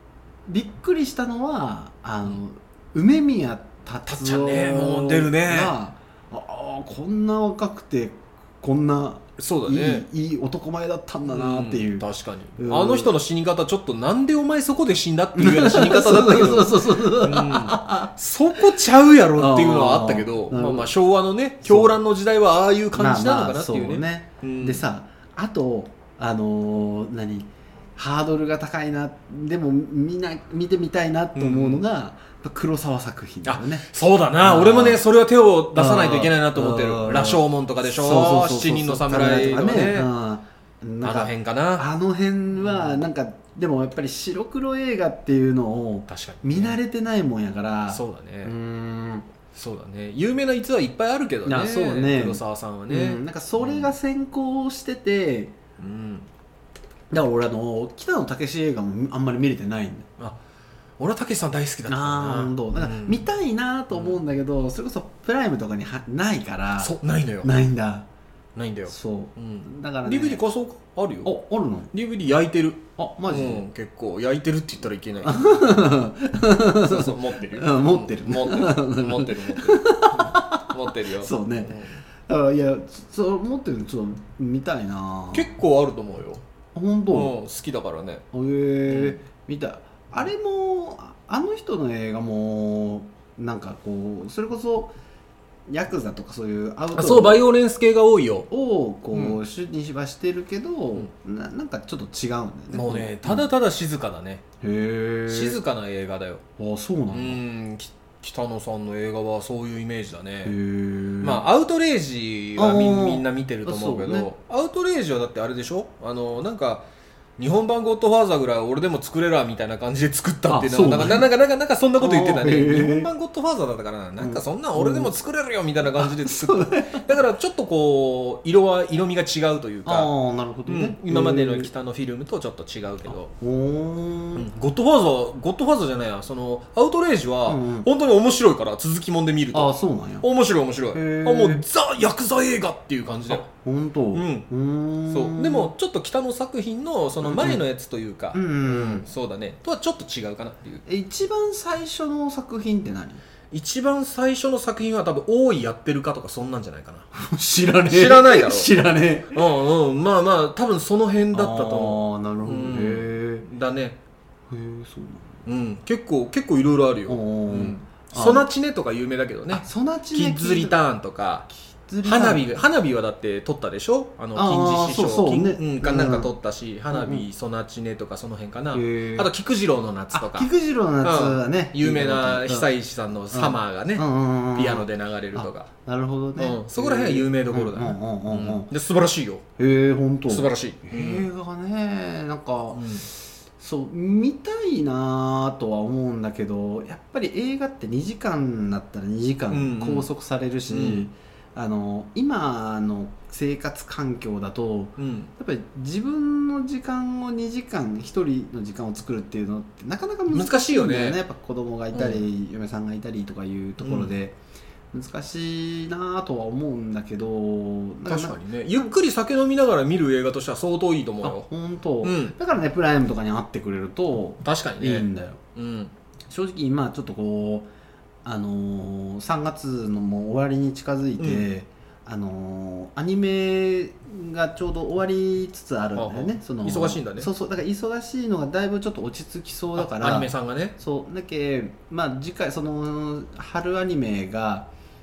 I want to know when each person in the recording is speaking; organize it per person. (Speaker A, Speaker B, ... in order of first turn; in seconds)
Speaker A: 0.5-12.1, 12.6-13.1, 15.3-18.1, 19.4-20.9, 21.6-21.9, 22.9-33.9, 34.4-35.0, 35.7-49.3, 51.4-55.5, 57.1-60.1, 61.9-68.0, 68.9-70.4, 71.2-71.9, 73.0-73.6, 75.2-85.5, 86.7-87.3, 88.3-94.9, 95.7-97.5, 98.5-103.5, 104.6-105.6, 106.6-107.4, 110.4-111.4, 112.5-114.3, 120.5-121.3, 122.0-123.1, 124.2-125.2, 125.8-127.1, 129.8-131.7, 133.1-134.5, 137.4-137.9, 139.5-140.2, 140.9-141.6, 143.3-145.7, 147.2-147.6, 148.3-149.1, 150.8-153.2, 157.1-159.4, 161.3-163.5, 164.5-165.4, 167.1-168.4, 169.5-170.8, 171.5-172.6, 174.3-176.3, 176.9-177.2, 178.7-179.3, 180.1-182.7, 183.3-188.7, 189.6-214.4, 214.9-218.9, 221.2-225.4, 226.3-227.7, 228.2-244.7
Speaker B: 4.1-5.7, 9.4-10.1, 11.2-24.8, 31.3-31.8, 33.5-40.1, 41.0-41.9, 42.5-43.0, 46.1-46.8, 47.9-48.5, 49.5-53.9, 55.8-56.3, 61.0-63.2, 63.9-64.2, 66.8-67.5, 68.5-71.3, 71.9-75.8, 76.8-82.0, 85.3-86.4, 87.1-88.2, 88.9-89.2, 96.9-98.5, 99.1-99.4, 102.7-104.4, 105.3-106.4, 107.1-110.6, 111.2-116.8, 117.4-130.1, 130.7-133.3, 134.3-143.5, 144.1-144.5, 145.1-150.8, 153.5-157.1, 157.8-158.7, 159.3-164.0, 165.4-171.5, 172.0-180.5, 181.0-185.7, 186.4-189.4, 190.3-191.3, 192.7-193.1, 199.5-200.1, 200.7-201.0, 205.0-205.3, 210.3-211.2, 211.9-212.2, 213.8-214.1, 218.1-221.5, 222.0-222.3, 224.4-225.9, 231.2-231.5, 235.9-237.3, 239.8-240.7